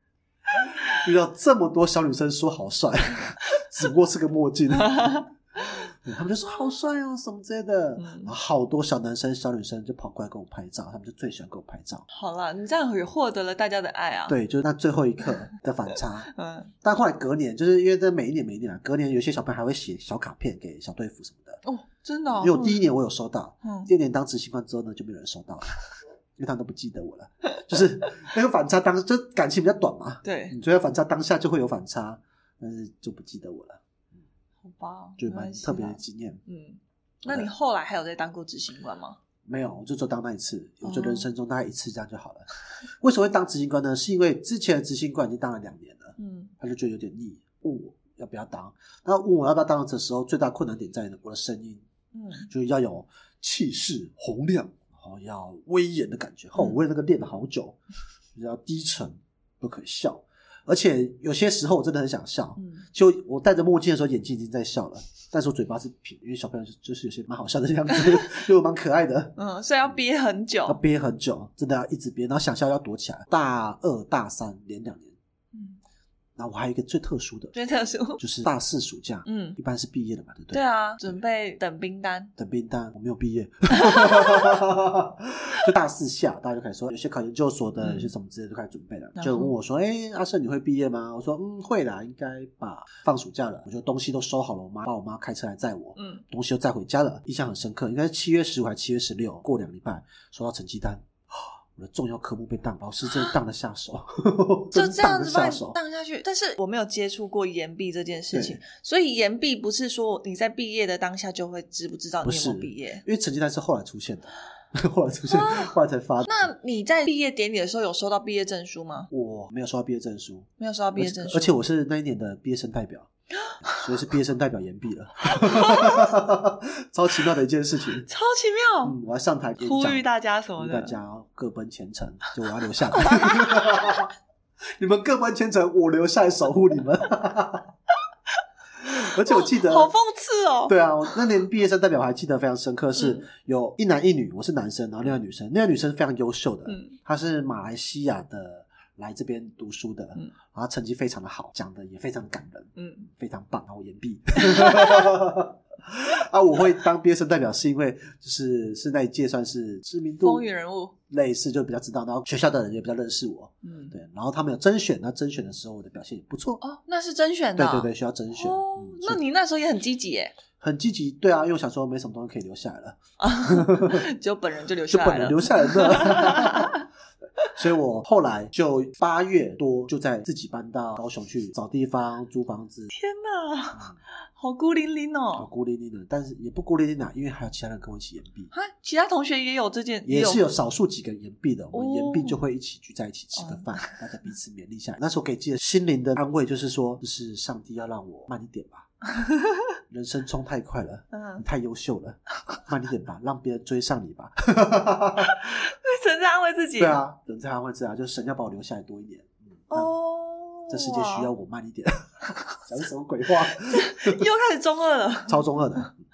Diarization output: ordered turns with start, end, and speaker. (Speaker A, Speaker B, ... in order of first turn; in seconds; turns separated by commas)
Speaker A: 0.5-12.1, Speaker B: 4.8-5.2, Speaker B: 8.0-8.3, Speaker B: 12.1-14.4, Speaker A: 14.3-16.3, Speaker B: 16.3-16.7, Speaker A: 16.8-21.6, Speaker B: 21.6-22.8, Speaker A: 22.4-25.7, Speaker B: 23.6-23.9, Speaker A: 26.4-33.8, Speaker B: 30.2-30.6, Speaker B: 34.6-39.2, Speaker A: 35.2-36.4, Speaker A: 37.2-37.5, Speaker A: 39.5-42.5, Speaker B: 40.8-41.3, Speaker A: 43.0-51.8, Speaker B: 46.2-46.5, Speaker B: 52.1-52.5, Speaker A: 52.5-57.8, Speaker A: 58.4-70.0, Speaker B: 62.6-62.9, Speaker B: 67.9-68.3, Speaker B: 69.4-70.8, Speaker A: 70.7-75.2, Speaker B: 75.5-75.8, Speaker A: 76.4-77.5, Speaker B: 77.5-78.2, Speaker A: 78.2-81.2, Speaker B: 79.2-79.6, Speaker B: 80.5-82.3, Speaker A: 82.4-105.8, Speaker B: 83.7-84.6, Speaker B: 87.8-88.1, Speaker B: 89.2-89.5, Speaker B: 96.0-96.2, Speaker B: 103.0-103.4, Speaker B: 104.7-113.0, Speaker A: 108.3-108.6, Speaker A: 112.2-116.5, Speaker B: 115.3-115.7, Speaker B: 116.3-119.1, Speaker A: 119.1-123.1, Speaker B: 120.6-121.5, Speaker B: 123.5-123.9, Speaker A: 123.6-128.1, Speaker B: 125.2-126.1, Speaker B: 128.1-129.0, Speaker A: 128.8-134.1, Speaker B: 129.6-131.0, Speaker B: 132.9-134.1, Speaker A: 134.8-137.7, Speaker B: 138.9-141.2, Speaker A: 138.9-139.9, Speaker A: 140.7-160.5, Speaker B: 143.0-143.2, Speaker B: 146.7-146.9, Speaker B: 152.8-153.1, Speaker B: 154.4-155.1, Speaker B: 160.2-161.0, Speaker A: 161.1-166.6, Speaker B: 163.6-164.0, Speaker B: 166.6-170.4, Speaker A: 167.6-169.2, Speaker A: 170.6-174.1, Speaker B: 173.2-176.8, Speaker A: 174.9-176.8, Speaker A: 177.5-182.9, Speaker B: 182.9-185.5, Speaker A: 185.3-188.5, Speaker B: 188.5-190.5, Speaker A: 190.1-198.9, Speaker B: 191.7-192.4, Speaker B: 193.3-193.9, Speaker B: 199.2-199.6, Speaker A: 199.9-205.4, Speaker B: 201.1-201.4, Speaker B: 205.2-207.0, Speaker A: 206.8-209.9, Speaker B: 209.7-211.3, Speaker A: 210.7-214.3, Speaker B: 213.6-215.9, Speaker A: 215.3-215.9